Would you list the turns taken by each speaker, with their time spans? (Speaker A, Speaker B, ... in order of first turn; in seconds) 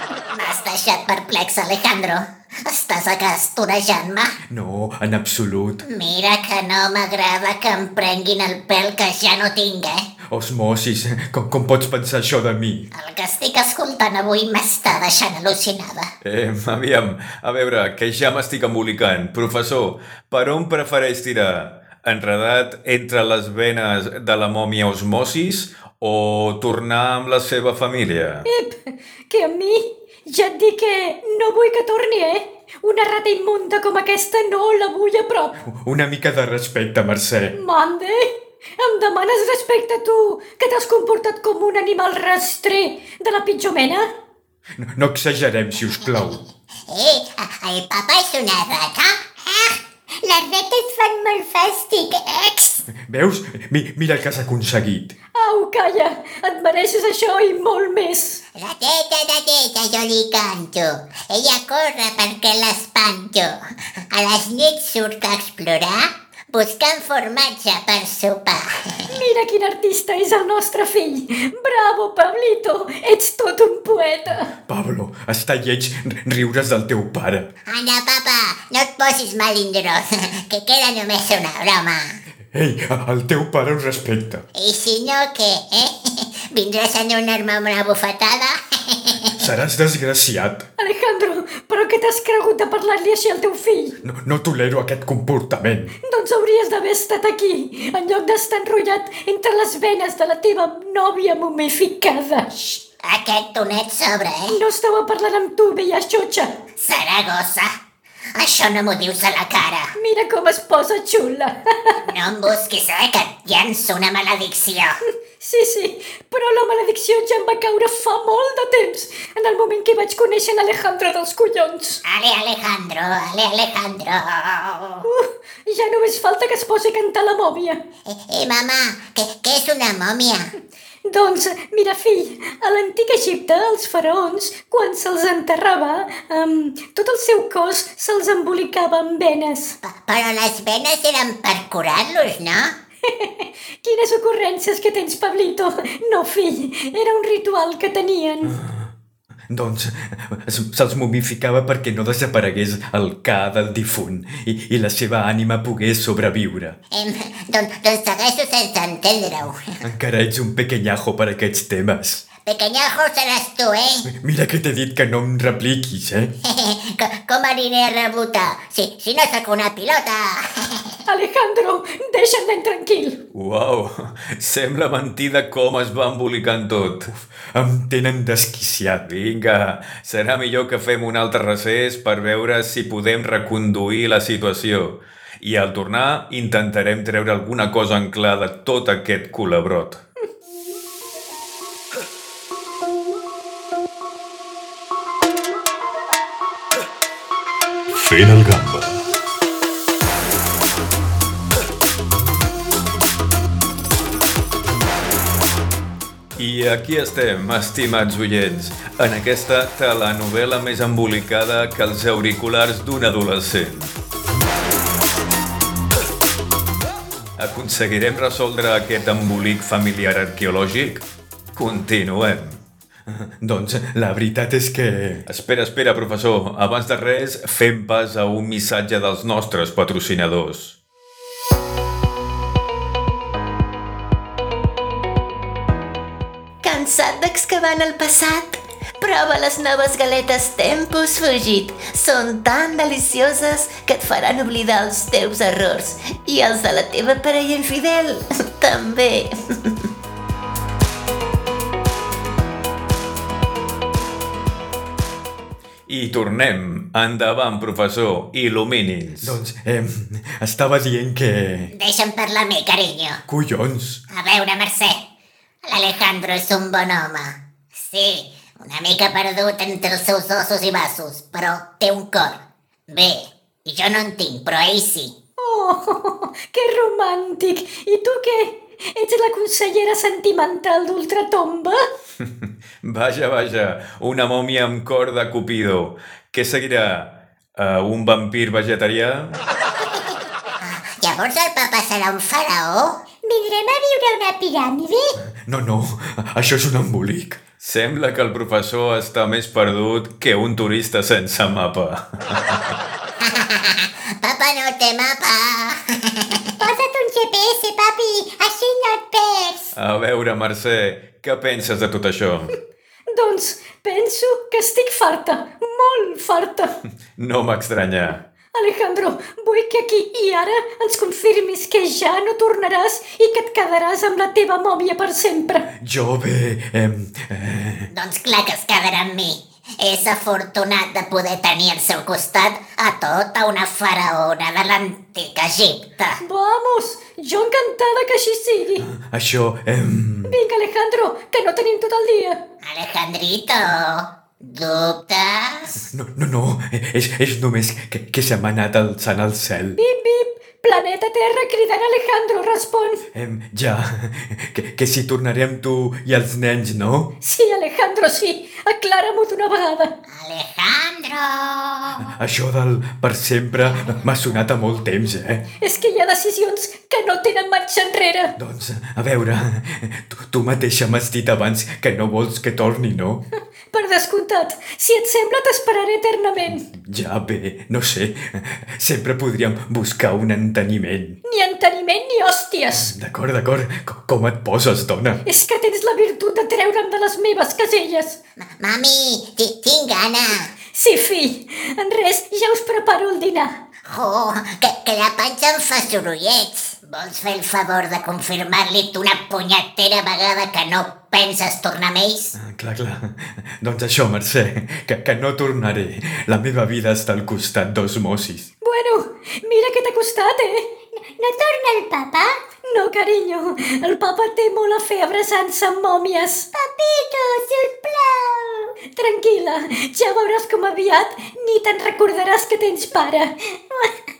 Speaker A: 0.3-4.4, 5.8-10.1, 12.9-16.1, 46.9-49.8, 58.5-63.6, 64.1-69.1, 77.7-82.2, 84.5-89.5, 102.5-104.6, 106.8-107.7, 108.3-109.9, 112.0-115.0, 122.0-125.1, 128.1-130.5, 139.8-142.7, 156.9-159.6, 162.4-164.1, 166.4-170.9, 261.7-263.2, 264.1-265.1, 265.6-275.1, 290.6-293.0, 303.2-306.6, 327.9-336.2, 342.6-345.8, 360.1-362.1, 363.6-365.4, 388.4-390.5, 393.9-402.4
Speaker B: 4.5-5.8, 10.3-12.9, 35.6-37.5, 44.8-46.4, 52.9-55.1, 74.7-77.5, 82.5-84.4, 89.3-90.7, 94.0-95.9, 148.4-148.9, 149.5-156.8, 159.8-162.2, 164.0-166.3, 177.1-179.1, 223.1-225.2, 259.2-261.7, 263.3-264.0, 295.2-297.4, 325.8-327.9, 338.8-340.4, 345.7-349.8, 353.1-357.1, 362.1-365.4, 368.4-373.2, 376.4-381.2, 382.7-385.2, 402.3-408.5
Speaker C: 16.2-28.5, 173.3-177.1, 179.1-190.0, 198.0-199.0, 206.3-213.9, 217.4-222.6, 225.2-230.8, 255.9-259.4, 282.2-289.4, 297.6-302.6, 309.7-312.5, 317.1-318.2
Speaker D: 28.4-35.6, 37.5-44.1, 55.3-58.4, 69.1-74.5, 90.8-94.0, 96.0-102.5, 104.5-106.6, 110.0-112.0, 115.4-122.0, 125.0-127.8, 131.1-139.8, 143.1-148.6, 171.1-173.2, 275.4-281.8, 313.1-316.7, 318.5-325.7, 336.2-338.9, 340.2-342.4, 349.8-353.1, 357.2-359.9, 365.6-368.4, 373.7-376.7, 381.2-382.9, 385.2-388.2, 390.7-393.6, 408.6-410.8, 412.6-416.5, 418.9-423.3
Speaker E: 50.2-52.8, 293.2-295.2, 306.6-309.7, 411.1-412.3, 416.5-418.7
Speaker F: 236.6-249.4